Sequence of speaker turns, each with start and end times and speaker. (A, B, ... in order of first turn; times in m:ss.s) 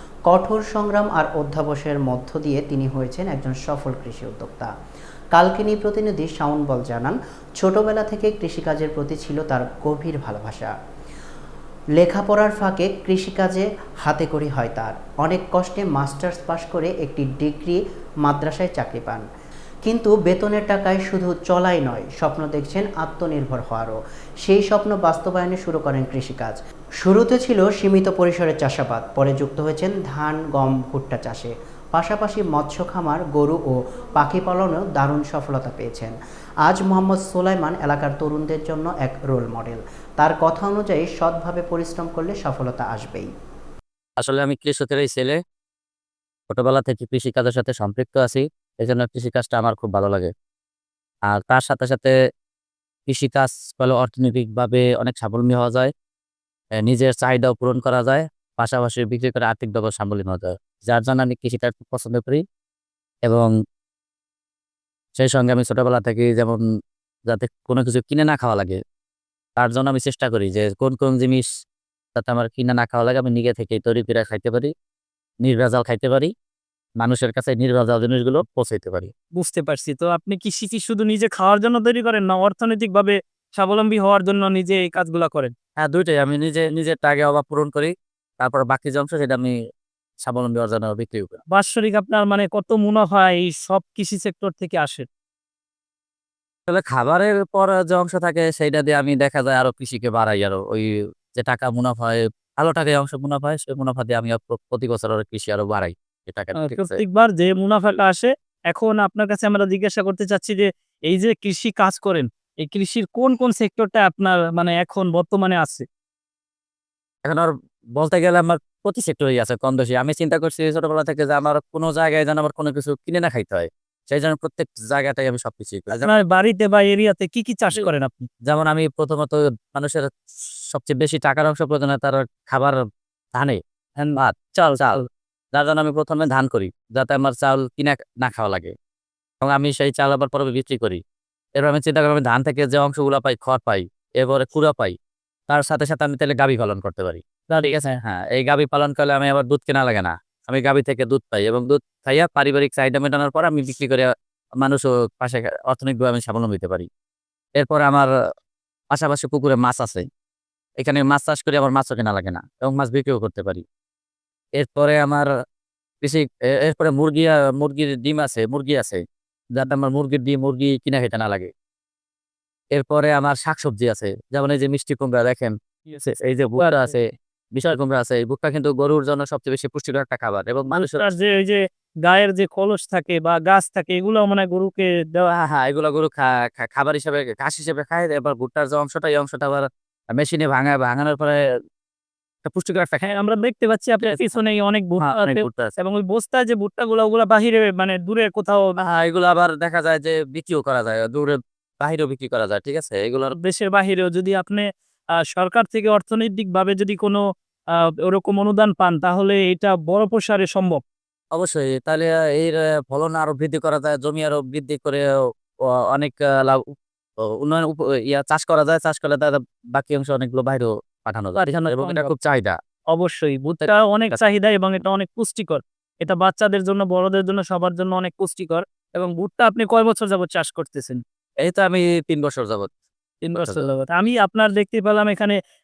0:00.3-0:04.7 A
0:05.3-0:10.7 A
0:12.0-0:19.2 A
0:19.9-0:36.1 A
0:36.6-0:43.3 A
0:44.2-0:45.4 B
0:46.5-0:50.3 B
0:51.3-0:52.1 B
0:53.1-0:55.9 B
0:56.8-1:02.4 B
1:03.3-1:03.5 B
1:05.2-1:06.6 B
1:07.3-1:08.8 B
1:09.6-1:11.5 B
1:12.2-1:14.7 B
1:15.4-1:16.3 B
1:17.0-1:19.1 B
1:19.4-1:25.5 C
1:25.8-1:29.6 B
1:30.2-1:31.4 B
1:31.5-1:35.1 C
1:36.7-1:47.0 B
1:46.6-1:55.8 C
1:57.2-2:06.1 B
2:06.1-2:08.3 C
2:08.5-2:10.1 B
2:10.7-2:12.8 B
2:13.3-2:13.6 B
2:14.0-2:15.0 C
2:14.1-2:18.7 B
2:19.4-2:21.0 B
2:21.6-2:24.9 B
2:25.5-2:34.1 B
2:27.5-2:27.9 C
2:34.6-2:36.9 B
2:37.6-2:38.1 B
2:38.9-2:40.0 B
2:40.8-2:43.6 B
2:44.6-2:45.3 B
2:46.0-2:49.0 B
2:49.5-2:51.5 B
2:52.7-2:57.0 B
2:56.6-2:56.9 C
2:57.5-3:01.0 B
3:01.0-3:05.3 C
3:05.3-3:11.4 B
3:12.4-3:13.0 B
3:13.0-3:18.7 C
3:15.0-3:15.7 B
3:18.8-3:23.3 B
3:23.4-3:24.6 C
3:25.3-3:27.2 C
3:28.0-3:30.8 C
3:31.3-3:35.0 B
3:35.9-3:36.6 B
3:37.4-3:42.6 B
3:41.4-3:42.1 C
3:42.9-3:51.0 C
3:51.4-3:52.7 B
3:53.2-3:55.3 C
3:53.3-3:53.6 B